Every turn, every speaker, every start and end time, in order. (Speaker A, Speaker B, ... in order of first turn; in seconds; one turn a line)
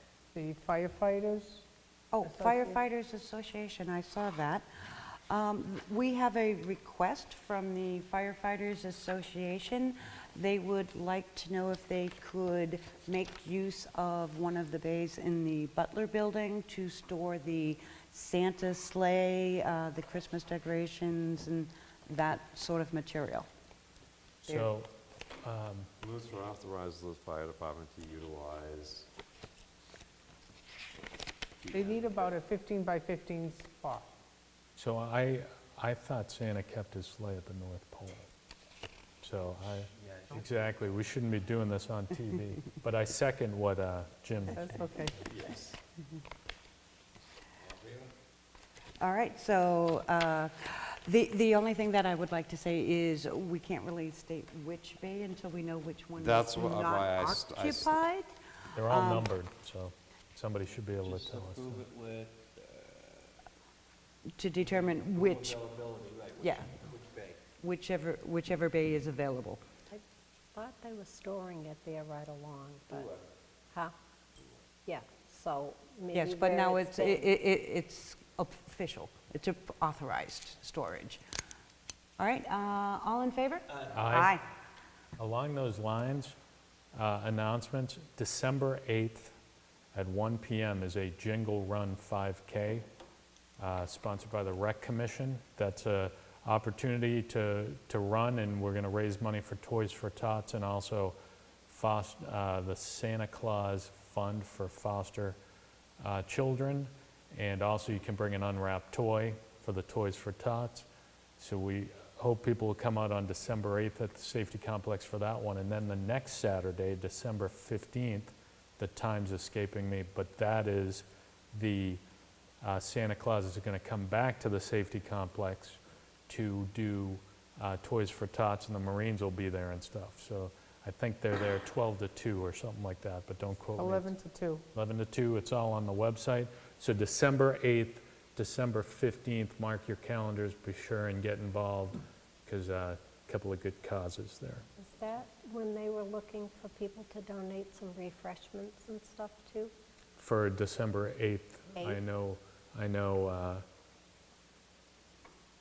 Speaker A: 0.3-1.6
Speaker B: 2.1-23.5
Speaker A: 2.2-2.8
Speaker C: 24.4-25.9
Speaker D: 26.0-29.1
Speaker E: 31.6-32.3
Speaker A: 31.7-34.1
Speaker C: 34.8-38.3
Speaker C: 39.2-44.7
Speaker E: 40.0-40.7
Speaker A: 44.5-45.2
Speaker E: 47.7-48.1
Speaker B: 49.0-59.3
Speaker D: 56.2-58.0
Speaker C: 58.7-61.9
Speaker E: 61.0-63.3
Speaker B: 64.4-65.6
Speaker E: 64.6-67.4
Speaker B: 66.4-66.9
Speaker B: 67.6-69.6
Speaker F: 70.5-73.0
Speaker E: 72.9-73.2
Speaker F: 74.8-77.3
Speaker B: 76.1-81.2
Speaker B: 82.2-84.4
Speaker C: 83.9-84.4
Speaker C: 85.2-86.3
Speaker C: 86.9-89.3
Speaker C: 89.9-92.9
Speaker C: 93.6-105.4
Speaker C: 106.0-122.0
Speaker C: 122.6-134.1
Speaker A: 133.8-134.6
Speaker C: 134.7-144.7
Speaker F: 144.8-149.7
Speaker C: 150.2-153.6